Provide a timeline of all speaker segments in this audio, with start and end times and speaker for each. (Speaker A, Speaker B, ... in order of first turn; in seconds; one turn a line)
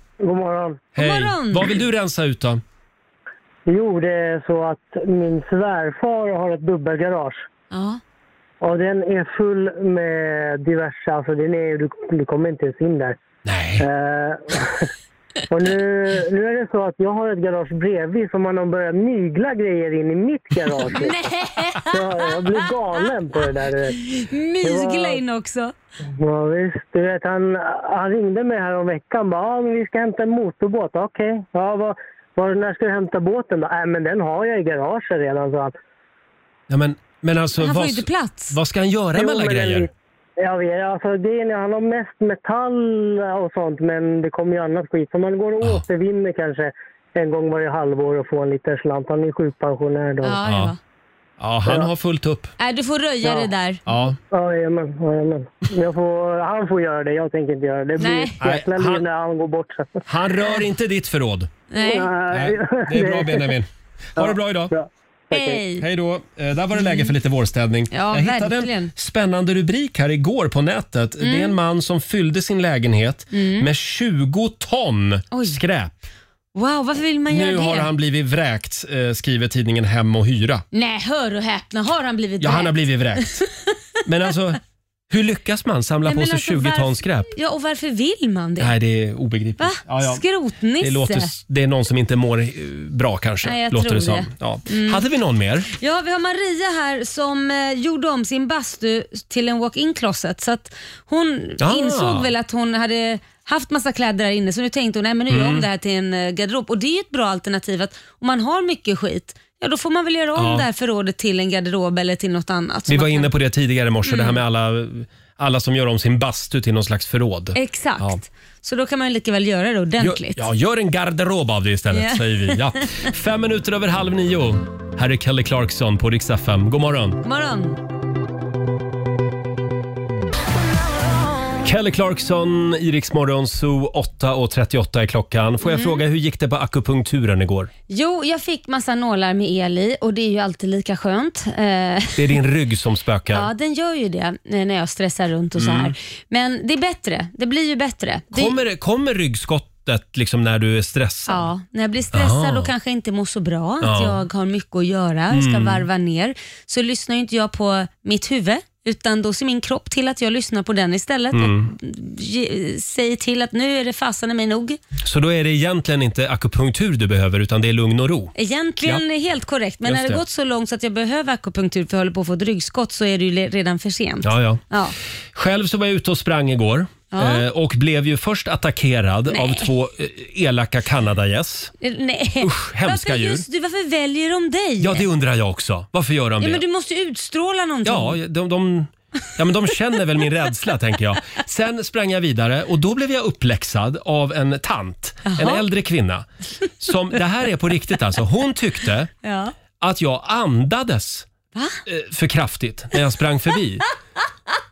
Speaker A: 0.2-0.8
Speaker B: 0.9-2.6
Speaker C: 1.0-1.7
Speaker A: 3.7-7.4
Speaker C: 7.7-8.0
Speaker A: 8.6-13.2
Speaker B: 13.4-13.8
Speaker A: 13.8-14.9
Speaker A: 15.5-21.3
Speaker C: 20.9-23.1
Speaker A: 21.9-24.0
Speaker C: 23.9-25.7
Speaker A: 24.6-25.2
Speaker A: 26.2-35.7
Speaker B: 36.7-39.9
Speaker C: 37.6-38.6
Speaker A: 39.1-39.9
Speaker A: 40.4-50.4
Speaker C: 50.2-50.8
Speaker B: 50.4-50.7
Speaker B: 51.4-52.5
Speaker C: 52.6-53.8
Speaker B: 53.9-54.2
Speaker A: 54.3-60.0
Speaker C: 58.0-58.4
Speaker B: 58.4-59.0
Speaker B: 60.1-61.6
Speaker C: 61.7-62.1
Speaker A: 61.8-63.5
Speaker B: 62.3-64.7
Speaker A: 64.2-65.6
Speaker C: 65.3-65.8
Speaker B: 65.7-76.0
Speaker C: 66.8-67.1
Speaker C: 67.9-68.9
Speaker C: 71.2-71.5
Speaker C: 73.3-73.7
Speaker C: 75.3-75.6
Speaker C: 76.5-77.9
Speaker B: 77.3-80.6
Speaker C: 80.7-82.7
Speaker B: 82.4-83.4
Speaker B: 84.0-84.6
Speaker B: 85.1-87.3
Speaker C: 86.0-88.7
Speaker B: 88.6-90.2
Speaker C: 89.6-91.3
Speaker B: 90.8-95.7
Speaker C: 93.4-95.0
Speaker C: 95.8-113.3
Speaker B: 101.6-102.3
Speaker B: 105.3-105.6
Speaker B: 110.3-110.7
Speaker B: 112.9-118.2
Speaker C: 114.0-114.4
Speaker C: 117.5-120.5
Speaker B: 120.0-127.2
Speaker C: 121.9-123.0
Speaker C: 127.2-127.8
Speaker B: 131.6-137.7
Speaker C: 135.6-136.0
Speaker C: 137.9-142.3
Speaker B: 142.2-143.5
Speaker C: 143.3-148.6
Speaker B: 145.6-145.9
Speaker B: 148.3-151.5
Speaker C: 151.3-164.8
Speaker B: 152.1-152.7
Speaker B: 153.8-154.2
Speaker B: 155.3-155.9
Speaker B: 161.3-161.7
Speaker B: 165.0-169.0
Speaker C: 168.3-174.9
Speaker B: 169.8-170.2
Speaker B: 174.2-174.6
Speaker B: 175.3-181.7
Speaker C: 177.1-177.4
Speaker C: 179.3-179.7
Speaker C: 181.8-185.0
Speaker B: 182.4-183.4
Speaker B: 184.8-186.6
Speaker C: 186.4-188.2
Speaker B: 187.8-196.2
Speaker C: 195.2-195.6
Speaker B: 196.8-199.1
Speaker C: 199.2-199.5
Speaker B: 199.8-201.3
Speaker B: 201.8-203.8